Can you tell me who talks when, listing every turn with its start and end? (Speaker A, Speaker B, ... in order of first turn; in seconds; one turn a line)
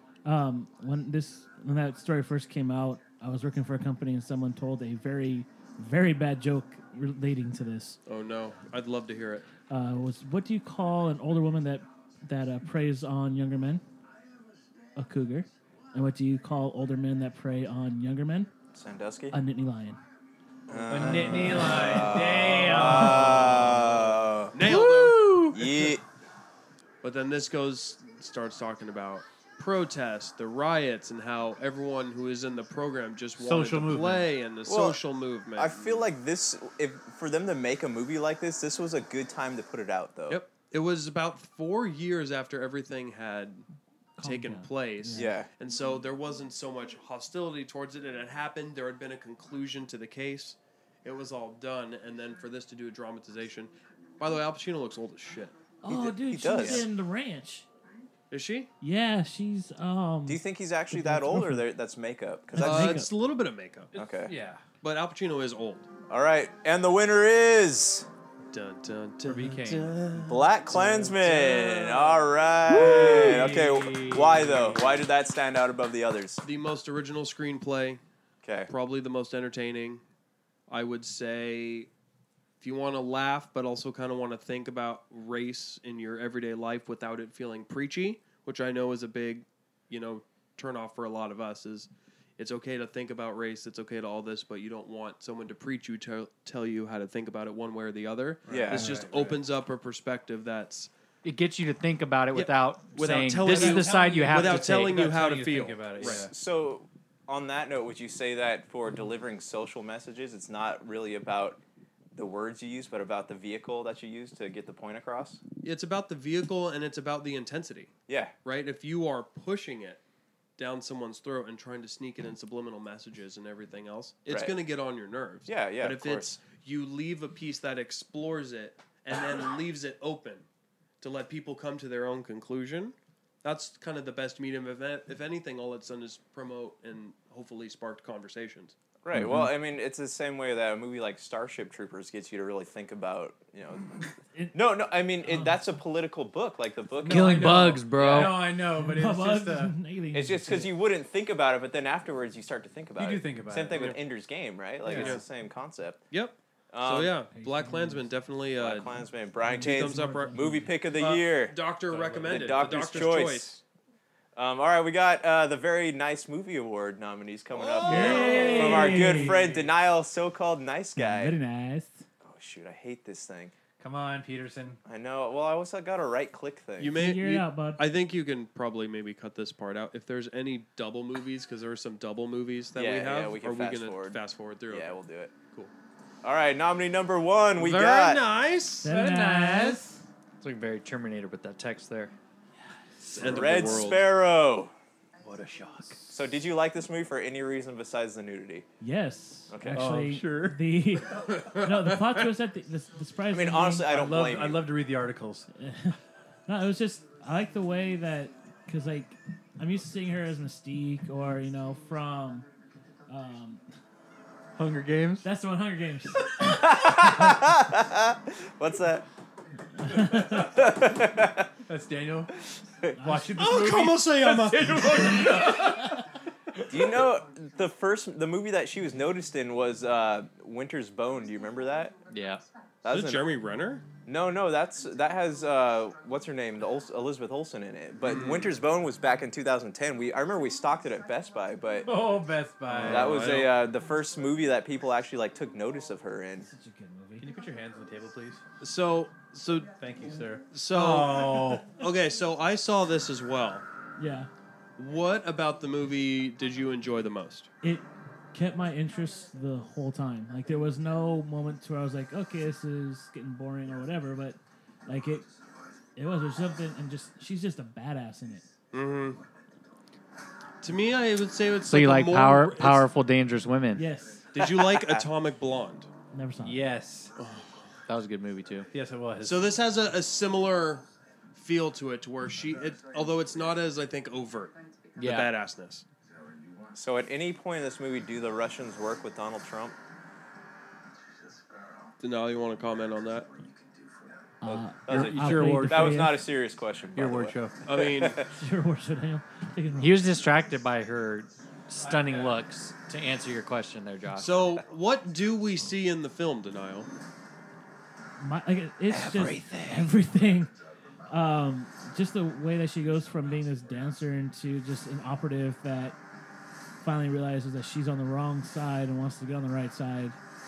Speaker A: 0.2-8.0
Speaker B: 8.1-9.5
Speaker A: 9.7-13.8
Speaker A: 15.0-18.5
Speaker C: 18.7-19.4
Speaker A: 19.3-20.0
Speaker C: 20.7-24.8
Speaker D: 20.9-25.9
Speaker B: 24.5-25.4
Speaker C: 25.4-26.0
Speaker B: 27.0-36.0
Speaker D: 33.4-34.3
Speaker C: 34.7-35.0
Speaker C: 35.5-40.4
Speaker B: 40.3-43.6
Speaker A: 44.2-45.3
Speaker B: 44.2-55.5
Speaker C: 45.1-45.5
Speaker A: 55.8-57.7
Speaker C: 55.9-56.9
Speaker B: 58.3-58.7
Speaker A: 58.8-61.7
Speaker C: 60.3-63.0
Speaker A: 62.5-63.1
Speaker B: 62.6-63.9
Speaker D: 63.9-64.6
Speaker C: 64.0-64.3
Speaker B: 64.8-65.9
Speaker C: 66.1-68.1
Speaker B: 68.5-72.3
Speaker D: 69.2-70.0
Speaker C: 70.2-76.4
Speaker D: 72.7-75.0
Speaker B: 72.8-73.4
Speaker B: 76.4-78.0
Speaker C: 78.4-78.7
Speaker B: 78.7-80.0
Speaker B: 80.7-81.9
Speaker B: 82.6-100.9
Speaker C: 98.5-99.0
Speaker D: 98.5-99.4
Speaker A: 98.8-99.0
Speaker E: 101.2-105.0
Speaker B: 102.3-106.3
Speaker D: 103.5-106.3
Speaker C: 106.0-111.6
Speaker C: 112.2-115.4
Speaker B: 115.6-117.9
Speaker C: 118.1-118.3
Speaker B: 118.5-120.0
Speaker B: 120.6-130.5
Speaker C: 124.3-124.5
Speaker C: 125.5-126.4
Speaker B: 131.0-138.8
Speaker C: 139.0-147.6
Speaker A: 139.2-139.5
Speaker A: 145.2-145.6
Speaker D: 147.0-149.8
Speaker E: 147.1-148.4
Speaker A: 147.1-150.7
Speaker C: 150.1-156.0
Speaker D: 153.0-154.0
Speaker B: 153.7-154.0
Speaker D: 154.8-155.2
Speaker B: 154.9-155.2
Speaker B: 156.1-158.9
Speaker C: 156.7-157.1
Speaker A: 157.3-158.1
Speaker C: 158.6-161.6
Speaker A: 159.4-160.7
Speaker B: 159.5-163.6
Speaker D: 161.9-163.2
Speaker C: 162.3-163.6
Speaker C: 164.3-171.3
Speaker B: 167.5-169.7
Speaker A: 167.8-169.4
Speaker A: 170.9-172.1
Speaker C: 172.2-173.5
Speaker D: 173.8-174.8
Speaker C: 174.8-177.0
Speaker B: 176.8-185.0
Speaker A: 176.9-177.8
Speaker C: 182.8-184.2
Speaker C: 184.7-185.3
Speaker C: 186.2-188.2
Speaker B: 187.6-188.9
Speaker A: 188.8-190.0
Speaker D: 188.8-190.0
Speaker E: 190.4-192.1
Speaker B: 193.1-194.0
Speaker C: 193.2-194.7
Speaker E: 193.2-193.5
Speaker D: 195.2-196.2
Speaker C: 196.1-198.7
Speaker A: 198.8-203.9
Speaker C: 199.5-199.9
Speaker D: 199.7-200.6
Speaker B: 201.3-201.7
Speaker C: 203.3-204.7
Speaker D: 203.8-205.5
Speaker A: 205.5-212.5
Speaker A: 213.1-213.6
Speaker D: 214.6-215.3
Speaker A: 215.2-217.4
Speaker C: 216.4-219.1
Speaker A: 219.8-220.7
Speaker C: 220.2-221.5
Speaker D: 221.7-222.3
Speaker A: 222.9-223.4
Speaker D: 223.0-225.9
Speaker B: 223.4-225.7
Speaker C: 226.7-231.9
Speaker E: 232.1-232.4
Speaker C: 232.8-233.3
Speaker B: 232.9-233.8
Speaker C: 234.1-241.9
Speaker B: 238.0-238.5
Speaker D: 241.8-243.4
Speaker B: 242.7-243.5
Speaker C: 242.8-246.5
Speaker A: 246.4-247.3
Speaker D: 247.2-248.4
Speaker B: 248.6-249.7
Speaker D: 249.8-251.7
Speaker B: 250.5-253.7
Speaker A: 254.0-254.3
Speaker B: 254.8-257.5
Speaker A: 257.6-265.3
Speaker A: 266.0-268.4
Speaker B: 268.7-269.2
Speaker B: 270.6-272.9
Speaker E: 271.7-273.8
Speaker A: 273.7-274.3
Speaker B: 274.3-275.9
Speaker C: 274.4-275.1
Speaker A: 276.1-276.6
Speaker D: 276.4-277.1
Speaker B: 277.2-277.6
Speaker E: 277.9-278.7
Speaker D: 278.7-279.6
Speaker B: 279.2-285.8
Speaker E: 285.0-285.3
Speaker C: 286.7-289.8
Speaker B: 292.0-293.3
Speaker A: 294.4-296.2
Speaker C: 294.4-298.3
Speaker D: 294.9-296.1
Speaker D: 296.9-297.6
Speaker B: 297.6-298.2
Speaker A: 298.3-300.1
Speaker E: 299.8-304.3
Speaker D: 301.8-302.4
Speaker B: 304.1-306.9
Speaker A: 308.2-310.5
Speaker D: 308.9-309.9
Speaker A: 311.1-316.0
Speaker A: 316.8-320.2